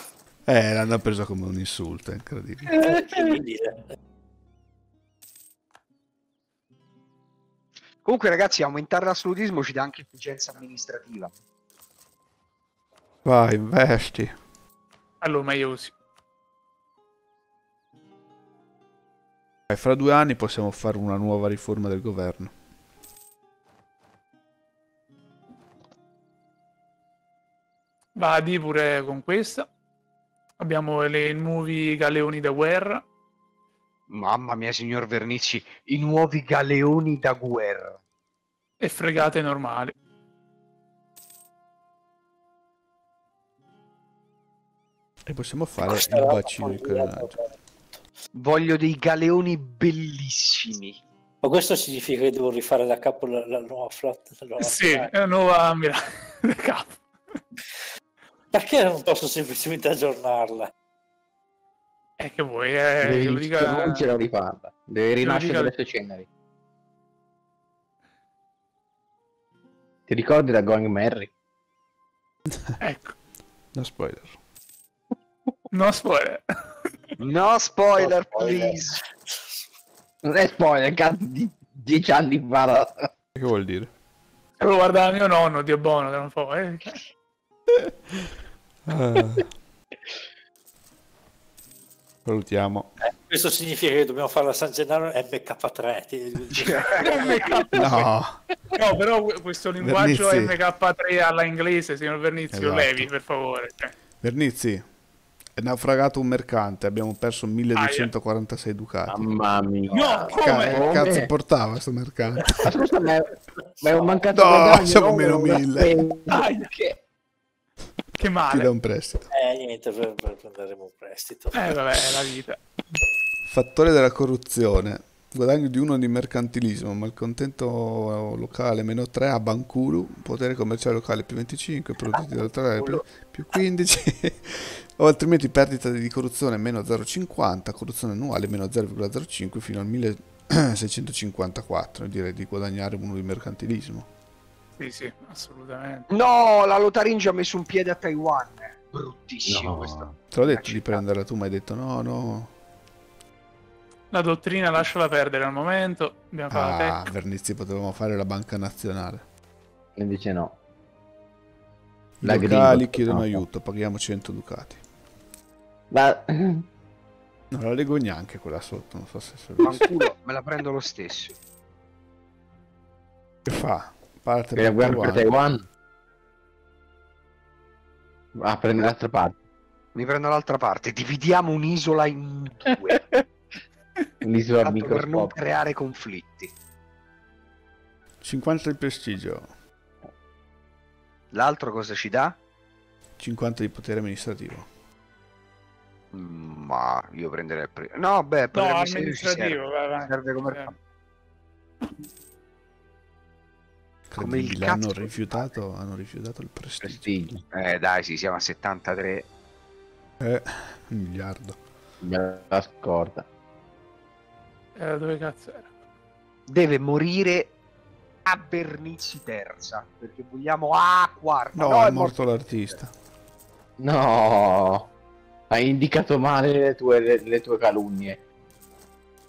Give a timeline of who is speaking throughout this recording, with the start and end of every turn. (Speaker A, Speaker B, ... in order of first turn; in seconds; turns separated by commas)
Speaker A: 0.5-2.8, Speaker B: 2.7-3.8, Speaker C: 8.0-11.3, Speaker A: 13.2-14.3, Speaker D: 15.2-15.9, Speaker A: 19.7-22.5, Speaker D: 28.2-29.7, Speaker D: 30.6-33.0, Speaker C: 34.1-38.0, Speaker D: 38.8-39.9, Speaker A: 45.3-47.4, Speaker B: 45.8-48.0, Speaker C: 48.3-51.0, Speaker B: 51.4-55.1, Speaker D: 54.6-57.0, Speaker B: 58.5-60.7, Speaker D: 62.2-64.1, Speaker E: 63.0-66.3, Speaker D: 65.2-65.7, Speaker E: 70.1-71.3, Speaker D: 72.8-73.2, Speaker A: 73.7-74.3, Speaker D: 75.7-76.4, Speaker C: 77.2-79.0, Speaker E: 78.0-78.8, Speaker E: 80.2-83.1, Speaker A: 83.3-83.9, Speaker D: 84.6-87.0, Speaker A: 87.8-88.2, Speaker A: 88.8-89.5, Speaker A: 92.2-92.9, Speaker B: 93.0-97.5, Speaker C: 96.5-97.1, Speaker D: 97.0-98.1, Speaker A: 97.8-98.4, Speaker D: 98.7-104.0, Speaker A: 99.8-100.6, Speaker A: 102.5-103.1, Speaker A: 104.2-104.9, Speaker A: 105.6-109.3, Speaker D: 107.8-108.1, Speaker E: 109.1-111.3, Speaker D: 109.9-110.9, Speaker A: 110.3-112.7, Speaker E: 112.6-113.3, Speaker B: 113.8-114.2, Speaker E: 113.8-116.4, Speaker A: 114.3-116.0, Speaker D: 116.3-116.7, Speaker D: 118.2-118.7, Speaker A: 118.4-119.2, Speaker B: 119.3-121.8, Speaker D: 121.5-122.6, Speaker A: 123.5-144.1, Speaker D: 144.8-146.1, Speaker C: 146.1-151.1, Speaker E: 149.5-150.2, Speaker A: 150.3-152.5, Speaker D: 154.1-157.1, Speaker A: 156.5-159.2, Speaker E: 160.0-160.6, Speaker A: 162.2-164.8, Speaker E: 162.2-163.4, Speaker E: 165.9-166.7, Speaker A: 167.5-169.9, Speaker C: 169.6-171.3, Speaker A: 173.5-175.3, Speaker E: 174.6-175.6, Speaker E: 178.3-179.4, Speaker C: 179.9-183.0, Speaker E: 184.2-185.3, Speaker C: 184.6-186.5, Speaker A: 188.2-189.5, Speaker C: 191.3-192.4, Speaker A: 193.2-194.7, Speaker C: 196.1-200.7, Speaker D: 198.5-200.8, Speaker A: 204.1-207.1, Speaker C: 204.2-205.6, Speaker E: 206.8-207.4, Speaker C: 207.5-209.3, Speaker A: 210.2-211.6, Speaker E: 212.0-213.3, Speaker D: 214.8-215.7, Speaker C: 216.5-217.5, Speaker C: 218.3-222.8, Speaker A: 221.5-222.9, Speaker E: 223.8-224.9, Speaker E: 225.5-228.2